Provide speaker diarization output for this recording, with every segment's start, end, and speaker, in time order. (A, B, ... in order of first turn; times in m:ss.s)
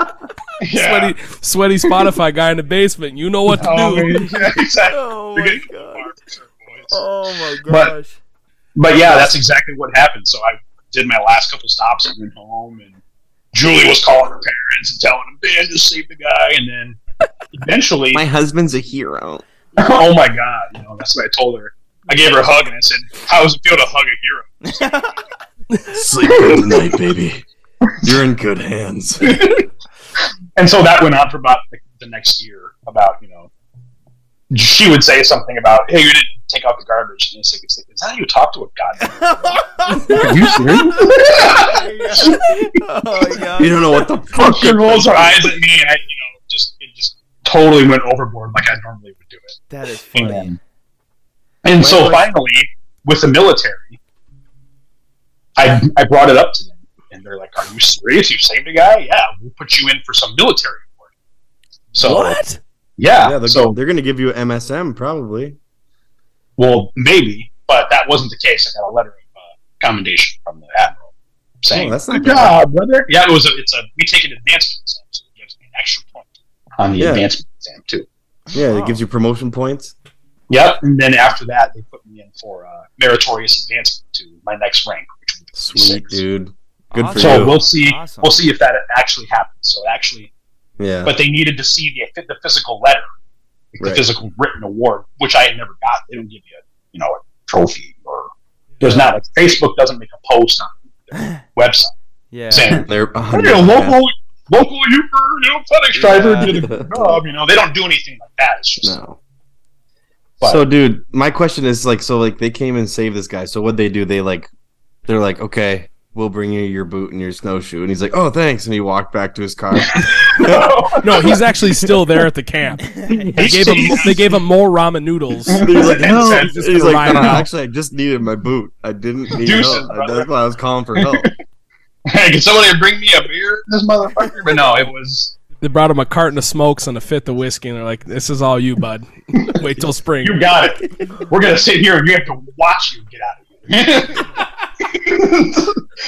0:00.6-0:01.2 A
0:00.7-0:04.3 B
0:03.6-0:07.0 A
0:04.8-0:06.1 C
0:06.9-0:08.2 C
0:07.6-0:07.9 A
0:08.8-0:13.0 A
0:13.5-0:17.0 A
0:17.5-0:18.2 A
0:18.1-0:19.4 D
0:19.8-0:24.8 A
0:24.6-0:25.2 C
0:25.8-0:26.6 B
0:25.9-0:27.4 D
0:26.3-0:26.7 A
0:28.0-0:29.6 D
0:29.2-0:29.6 A
0:30.6-0:33.5 A
0:34.5-0:39.6 A
0:39.0-0:43.8 C
0:40.1-0:42.5 A
0:43.6-0:45.6 D
0:44.3-0:49.6 A
0:49.7-0:50.6 C
0:50.1-0:50.6 A
0:51.6-0:54.0 A
0:51.8-0:52.2 D
0:55.6-1:01.0 A
1:01.9-1:02.4 A
1:02.0-1:02.6 B
1:03.0-1:03.7 A
1:03.2-1:05.6 D
1:06.6-1:11.1 A
1:11.6-1:18.0 A
1:11.7-1:12.6 D
1:17.0-1:17.3 D
1:18.5-1:19.0 C
1:18.5-1:19.9 D
1:20.5-1:26.2 A
1:25.5-1:27.6 D
1:26.9-1:28.4 C
1:27.1-1:30.3 A
1:30.8-1:31.1 D
1:31.0-1:33.0 A
1:33.7-1:41.9 A
1:33.8-1:34.0 D
1:42.3-1:42.8 C
1:42.5-1:49.0 A
1:42.9-1:44.0 D
1:45.9-1:46.6 C
1:46.5-1:47.2 D
1:48.8-1:49.2 D
1:50.4-1:54.5 D
1:55.0-2:00.7 D
1:59.8-2:01.4 A
2:01.0-2:07.5 B
2:03.0-2:03.3 C
2:03.1-2:04.0 D
2:03.3-2:04.4 A
2:05.4-2:07.4 A
2:05.6-2:11.3 D
2:09.3-2:10.3 A
2:11.0-2:11.3 A
2:12.1-2:15.3 A
2:15.6-2:20.5 B
2:20.2-2:25.8 A